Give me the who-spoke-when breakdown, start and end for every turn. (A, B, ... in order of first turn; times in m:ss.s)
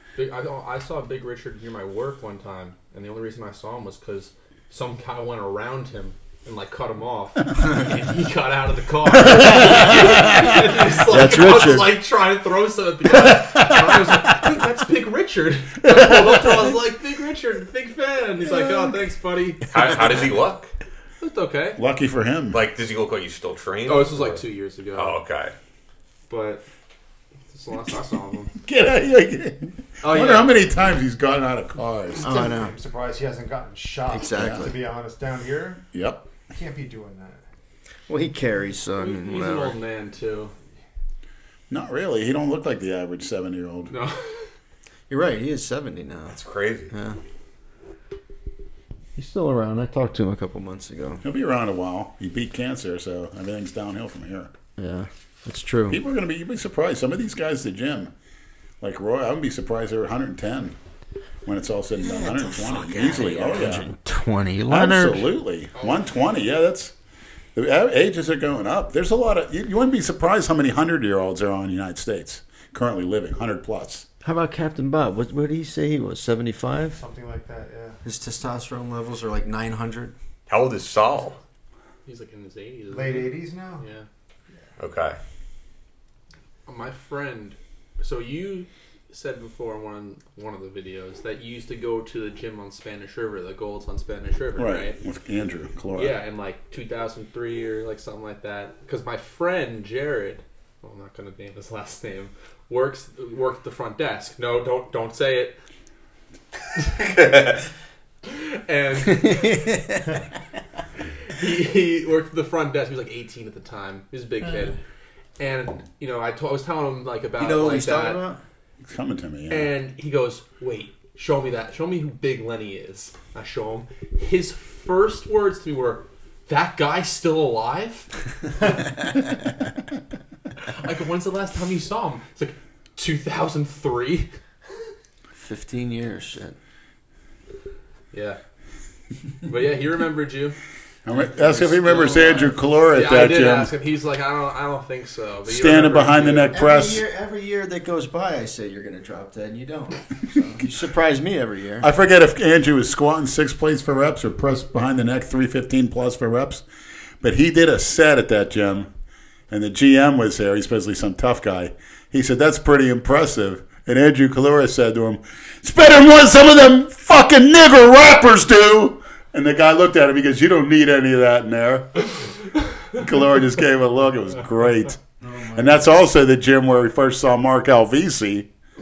0:00.1-0:20.4 A
0:09.2-0:10.7 B
0:09.3-0:10.5 C
0:11.0-0:12.0 C
0:13.2-0:14.3 B
0:15.8-0:16.6 B
0:19.7-0:20.7 D
0:21.2-0:21.8 A
0:21.8-0:22.6 B
0:22.5-0:24.4 D
0:23.8-0:25.2 A
0:24.9-0:25.5 D
0:26.3-0:26.6 A
0:27.5-0:28.5 A
0:28.6-0:32.3 B
0:30.0-0:30.6 A
0:32.2-0:32.7 C
0:32.2-0:35.8 E
0:34.1-0:34.8 C
0:34.3-0:34.7 B
0:35.9-0:36.3 B
0:36.5-0:37.4 E
0:38.1-0:39.8 C
0:38.9-0:40.5 A
0:41.7-0:43.9 B
0:43.9-0:44.4 A
0:45.1-0:46.4 C
0:46.3-0:46.9 D
0:46.9-0:47.2 C
0:49.2-0:51.2 C
0:51.2-0:54.5 B
0:54.8-0:56.0 C
0:55.9-0:58.1 B
0:58.8-1:00.8 B
1:01.4-1:03.9 B
1:02.1-1:05.3 C
1:04.7-1:06.9 B
1:05.7-1:06.0 A
1:07.5-1:14.0 B
1:14.2-1:17.0 C
1:17.0-1:18.0 E
1:18.0-1:20.1 C
1:20.5-1:21.4 D
1:22.0-1:24.0 A
1:22.9-1:23.8 E
1:24.8-1:25.2 D
1:26.6-1:35.0 A
1:34.6-1:36.2 B
1:35.9-1:45.6 A
1:47.0-1:47.6 D
1:48.2-1:49.8 A
1:49.2-1:50.0 C
1:51.3-1:54.8 A
1:54.4-1:54.7 C
1:55.4-1:58.2 A
1:57.4-1:58.4 C
1:58.8-1:59.7 B
1:59.5-2:08.1 A
2:10.7-2:14.3 A
2:15.3-2:16.6 C
2:18.1-2:18.4 A
2:19.4-2:20.6 A
2:21.0-2:23.7 B
2:21.1-2:26.6 A
2:21.9-2:22.5 C
2:25.4-2:27.0 B
2:26.5-2:31.9 C
2:31.8-2:36.6 B
2:37.2-2:38.9 B
2:39.5-2:52.1 B
2:52.9-2:55.0 B
2:55.5-2:58.5 B